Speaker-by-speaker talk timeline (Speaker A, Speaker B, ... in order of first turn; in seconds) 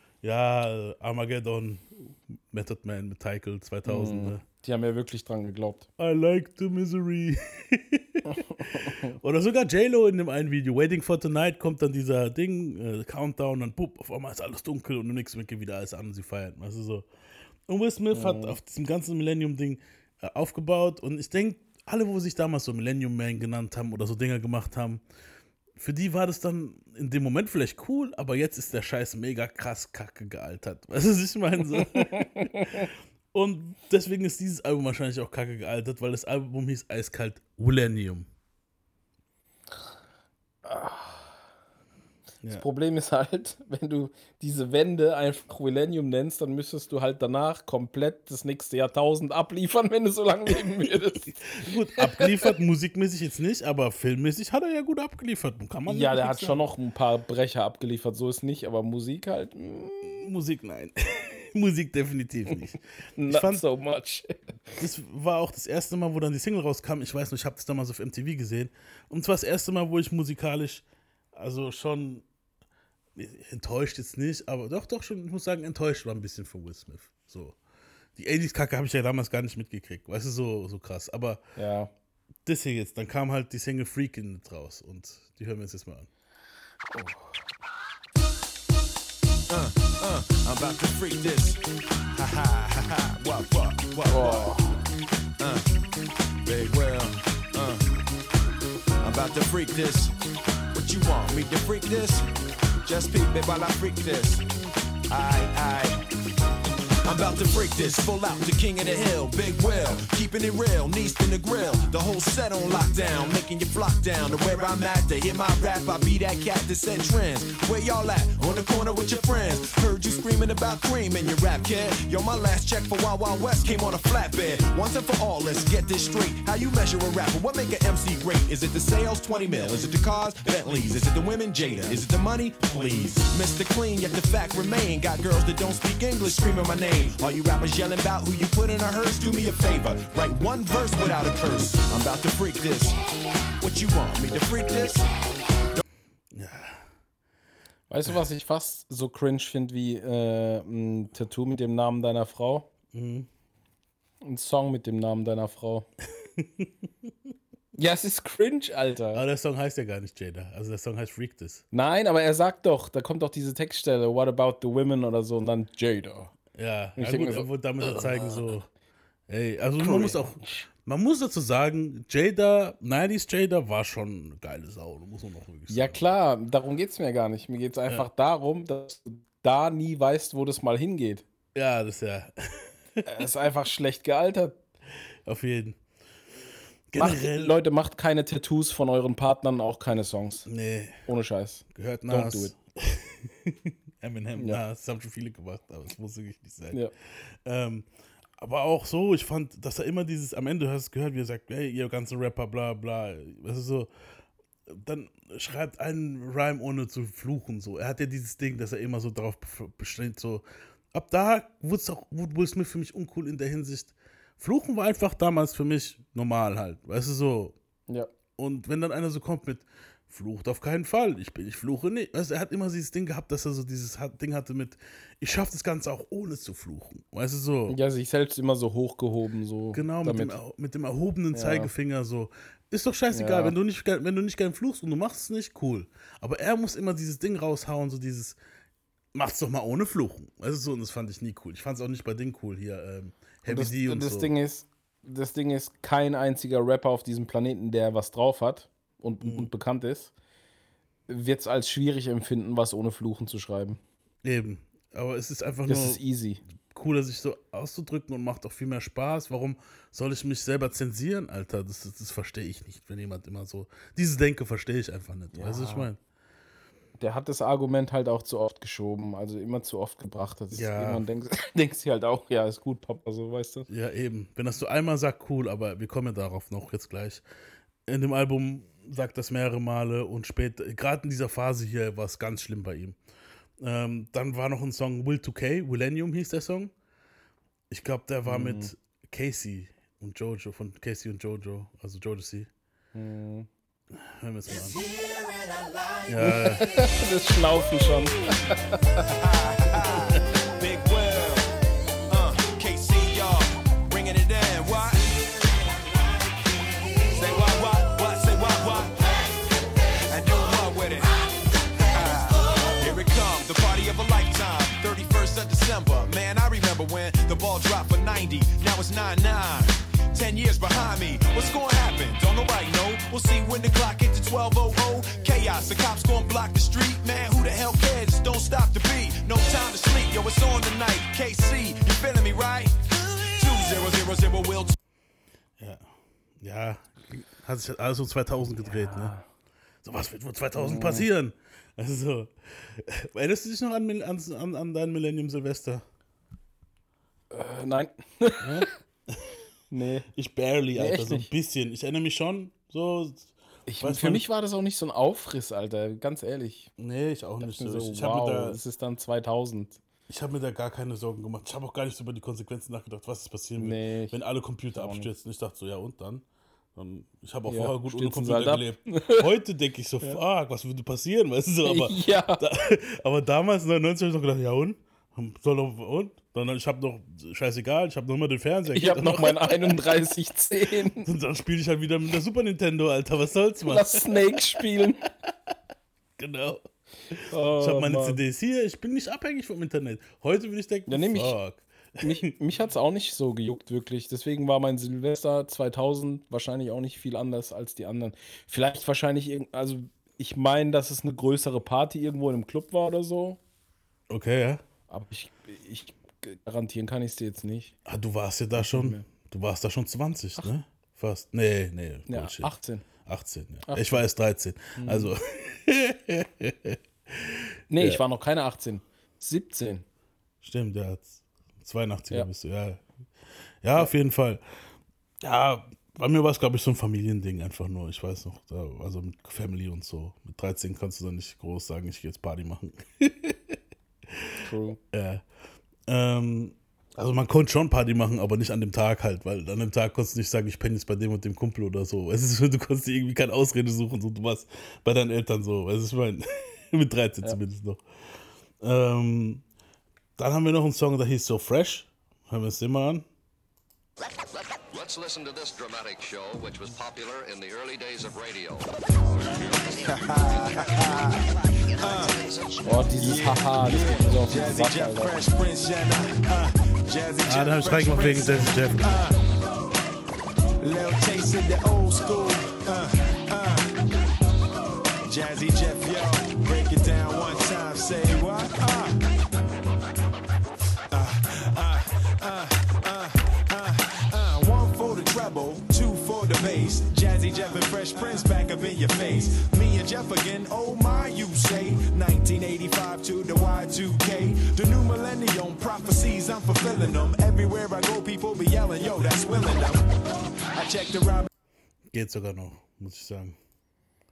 Speaker A: 0.2-4.4, 6.0-8.2, 9.2-17.1, 17.7-25.0, 25.8-38.3, 51.3-56.6, 60.0-63.6, 64.8-70.8, 71.4-72.2, 73.2-77.5, 78.2-81.4, 82.5-86.1, 146.3-146.8, 152.9-153.3, 156.4-156.7, 159.1-161.6, 166.5-168.7, 169.3-176.0, 181.5-183.0, 185.2-185.8, 186.9-187.5, 190.5-191.0, 191.8-197.9, 198.4-203.9, 204.7-217.5, 218.4-227.8, 229.7-238.4, 239.1-244.3, 249.2-249.5, 254.2-256.0, 256.7-266.0, 270.5-271.0, 273.7-277.2, 277.9-283.0, 283.6-286.7, 287.7-292.5, 294.0-294.8, 296.1-296.6, 335.6-335.8, 336.4-339.1, 339.8-345.8, 348.4-349.2, 350.1-354.2, 356.8-358.6, 360.1-366.2, 366.8-379.8, 381.0-384.4, 386.2-392.1, 404.1-404.6, 407.9-412.5, 413.0-418.0, 420.4-422.8, 423.6-424.4, 425.2-433.5, 434.9-435.2, 435.9-447.8, 448.6-449.4, 450.2-453.0, 467.2-468.8, 501.9-503.4
Speaker B: 3.9-5.9, 8.3-9.1, 18.1-18.6, 31.7-32.9, 40.6-41.3, 42.5-51.3, 52.0-52.5, 55.9-60.0, 63.2-64.5, 81.5-81.9, 86.9-87.3, 94.1-94.8, 147.9-152.7, 154.2-155.9, 157.8-159.2, 161.7-166.3, 167.0-168.5, 169.8-170.6, 175.7-181.2, 183.1-184.6, 187.0-190.5, 191.1-192.5, 227.7-230.4, 231.3-231.7, 233.1-233.5, 243.5-250.1, 251.1-253.8, 255.7-256.4, 265.3-265.9, 267.0-273.7, 288.3-288.7, 292.9-293.5, 296.2-299.0, 338.6-339.2, 340.6-341.1, 347.3-348.6, 349.7-350.1, 350.8-351.3, 353.7-356.7, 357.4-359.8, 363.6-364.1, 364.8-365.1, 367.5-369.2, 371.7-372.4, 378.8-381.1, 383.7-385.0, 387.3-388.2, 390.9-391.3, 392.0-403.4, 404.9-407.8, 408.6-409.0, 412.1-412.9, 413.7-414.0, 414.8-415.1, 417.7-419.8, 434.4-434.8, 462.6-465.1
Speaker C: 89.5-91.6, 92.1-94.5, 95.4-95.7, 96.4-98.0, 99.0-100.2, 100.7-102.3, 102.8-104.5, 105.1-106.0, 107.0-143.0, 143.6-145.1, 294.7-296.1, 299.2-306.0, 307.0-334.7, 459.8-462.2, 463.0-469.2, 470.6-473.7, 475.0-479.0, 480.9-499.9, 500.5-501.3
Speaker D: 454.5-459.8